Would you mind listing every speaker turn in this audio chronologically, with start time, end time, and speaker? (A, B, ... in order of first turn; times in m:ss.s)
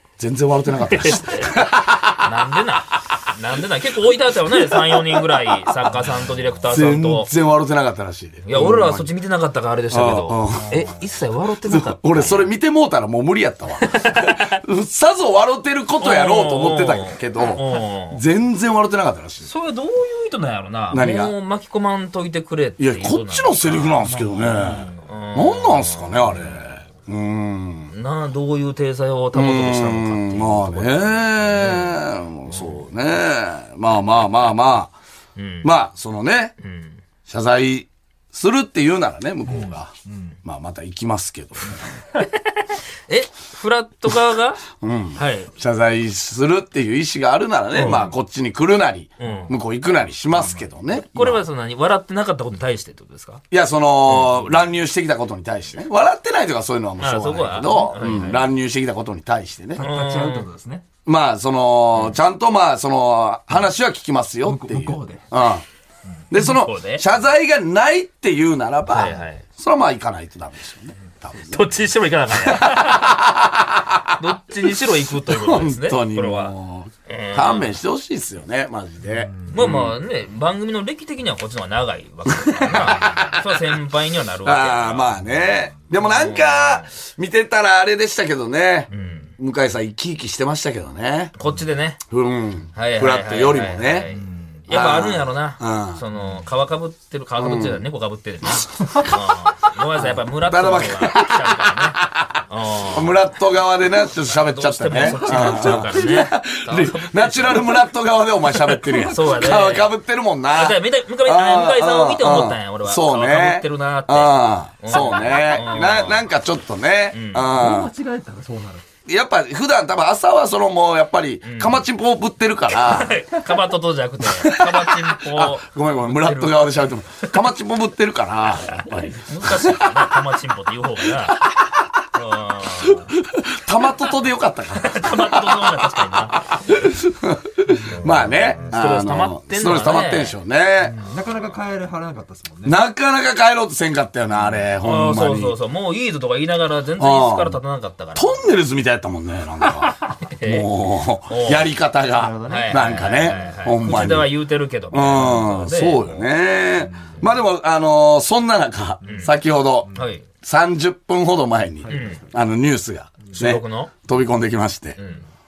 0:00.2-0:02.4 A
0:00.9-0:01.6 B
0:02.2-0:07.3 B
0:04.5-0:05.7 A
0:06.6-0:09.1 A
0:08.4-0:12.5 B
0:09.9-0:10.9 A
0:11.6-0:19.5 A
0:13.8-0:14.6 B
0:16.0-0:18.2 B
0:19.4-0:24.2 B
0:20.9-0:21.3 A
0:22.8-0:27.9 A
0:24.1-0:25.0 C
0:25.0-0:26.6 B
0:27.9-0:32.8 B
0:29.3-0:34.9 A
0:35.4-0:35.7 B
0:35.6-0:36.5 A
0:36.6-0:37.0 B
0:37.3-0:39.9 A
0:40.1-0:40.3 C
0:40.4-0:41.9 A
0:42.1-0:45.5 B
0:44.8-0:51.4 A
0:47.7-0:48.2 B
0:49.2-0:49.6 B
0:50.9-0:53.4 B
0:53.5-0:59.8 A
0:54.1-0:54.6 B
0:57.0-0:58.4 B
0:59.8-1:00.5 B
0:59.8-1:00.9 C
1:01.0-1:05.6 A
1:04.4-1:05.3 C
1:06.3-1:11.7 A
1:06.3-1:07.0 B
1:08.9-1:09.4 B
1:11.5-1:13.2 B
1:12.3-1:14.2 A
1:14.2-1:16.5 B
1:15.1-1:20.0 A
1:17.0-1:17.7 B
1:19.1-1:19.5 C
1:19.5-1:25.2 B
1:22.4-1:23.7 A
1:24.4-1:31.3 A
1:26.0-1:26.9 B
1:28.9-1:29.3 B
1:31.4-1:32.0 B
1:32.1-1:34.1 A
1:32.7-1:43.2 B
1:34.1-1:34.6 C
1:34.7-1:36.0 A
1:37.4-1:37.8 A
1:40.0-1:57.9 A
1:44.1-1:47.9 B
1:48.5-1:49.9 B
1:50.5-1:56.2 B
1:57.1-1:57.5 B
1:57.5-1:58.8 C
1:59.0-2:03.2 A
2:01.4-2:01.8 B
2:02.7-2:07.4 B
2:04.2-2:10.2 A
2:08.6-2:11.4 B
2:11.3-2:12.0 A
2:12.1-2:13.1 B
2:12.8-2:21.0 A
2:14.8-2:16.4 B
2:17.9-2:18.7 C
2:18.0-2:20.4 B
2:20.8-2:22.8 C
2:22.6-2:25.6 A
2:24.8-2:28.4 B
2:27.0-2:27.6 A
2:28.1-2:34.3 A
2:30.2-2:30.7 B
2:31.3-2:31.7 B
2:32.2-2:33.6 C
2:32.4-2:36.3 B
2:34.9-2:45.0 A
2:39.0-2:39.3 B
2:39.0-2:39.3 C
2:39.9-2:40.2 B
2:41.8-2:42.2 C
2:41.9-2:42.2 B
2:43.3-2:43.9 B
2:45.0-2:45.2 B